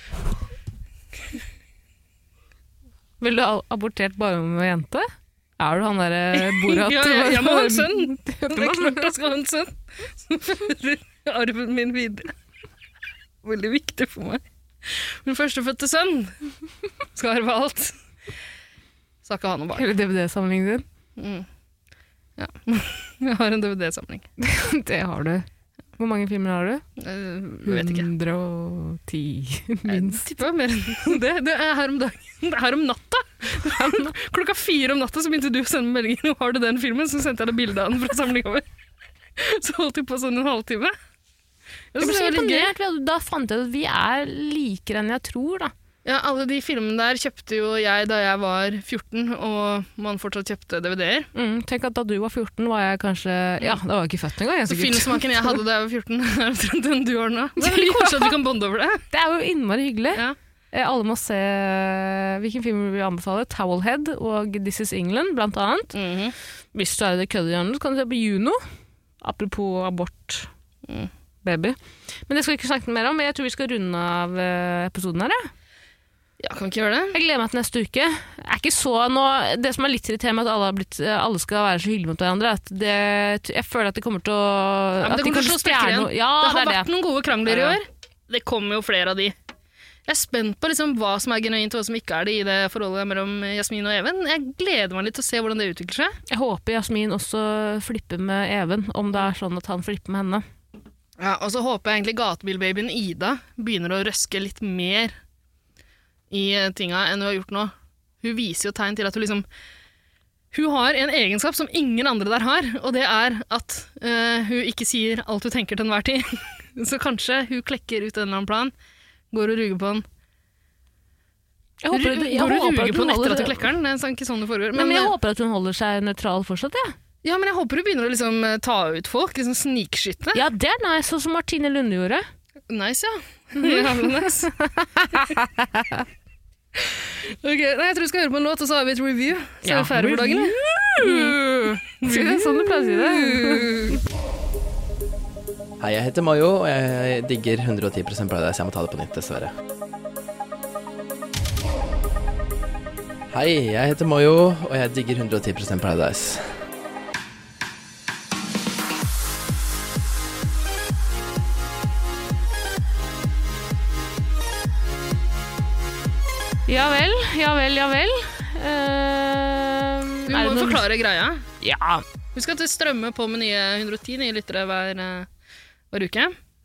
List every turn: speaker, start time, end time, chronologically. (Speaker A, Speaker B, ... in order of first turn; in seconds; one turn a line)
Speaker A: 3.2-5.1
Speaker A: 5.6-9.1
Speaker B: 6.3-12.3
Speaker B: 13.4-16.3
Speaker B: 17.2-17.9
Speaker B: 19.2-19.9
Speaker A: 19.8-20.9
Speaker B: 21.2-21.5
Speaker B: 22.4-24.3
Speaker A: 24.4-25.5
Speaker A: 26.0-26.8
Speaker B: 27.0-28.1
Speaker A: 27.6-30.2
Speaker B: 29.9-38.6
Speaker A: 33.7-34.1
Speaker B: 39.4-40.9
Speaker B: 41.9-42.7
Speaker A: 42.0-45.7
Speaker B: 46.0-51.3
Speaker A: 51.4-55.6
Speaker B: 54.7-59.0
Speaker A: 57.6-58.3
Speaker A: 59.1-65.9
Speaker B: 65.9-66.3
Speaker A: 66.7-68.6
Speaker A: 69.2-70.5
Speaker A: 71.4-75.5
Speaker B: 76.4-77.2
Speaker A: 77.1-86.9
Speaker B: 85.0-89.3
Speaker A: 87.5-87.8
Speaker B: 90.1-96.2
Speaker A: 96.3-100.4
Speaker B: 101.2-105.1
Speaker B: 106.3-109.5
Speaker B: 110.5-118.7
Speaker B: 119.3-120.0
Speaker A: 121.8-123.6
Speaker B: 121.9-125.1
Speaker A: 124.8-127.0
Speaker B: 127.2-130.4
Speaker A: 130.3-132.2
Speaker B: 132.7-134.5
Speaker A: 133.6-136.1
Speaker B: 136.8-141.4
Speaker A: 139.6-143.7
Speaker B: 142.0-144.0
Speaker C: 145.8-149.5
Speaker C: 153.3-156.6
Speaker A: 166.7-170.9
Speaker B: 170.3-171.4
Speaker A: 171.6-172.0
Speaker B: 172.3-175.3
Speaker B: 175.9-176.3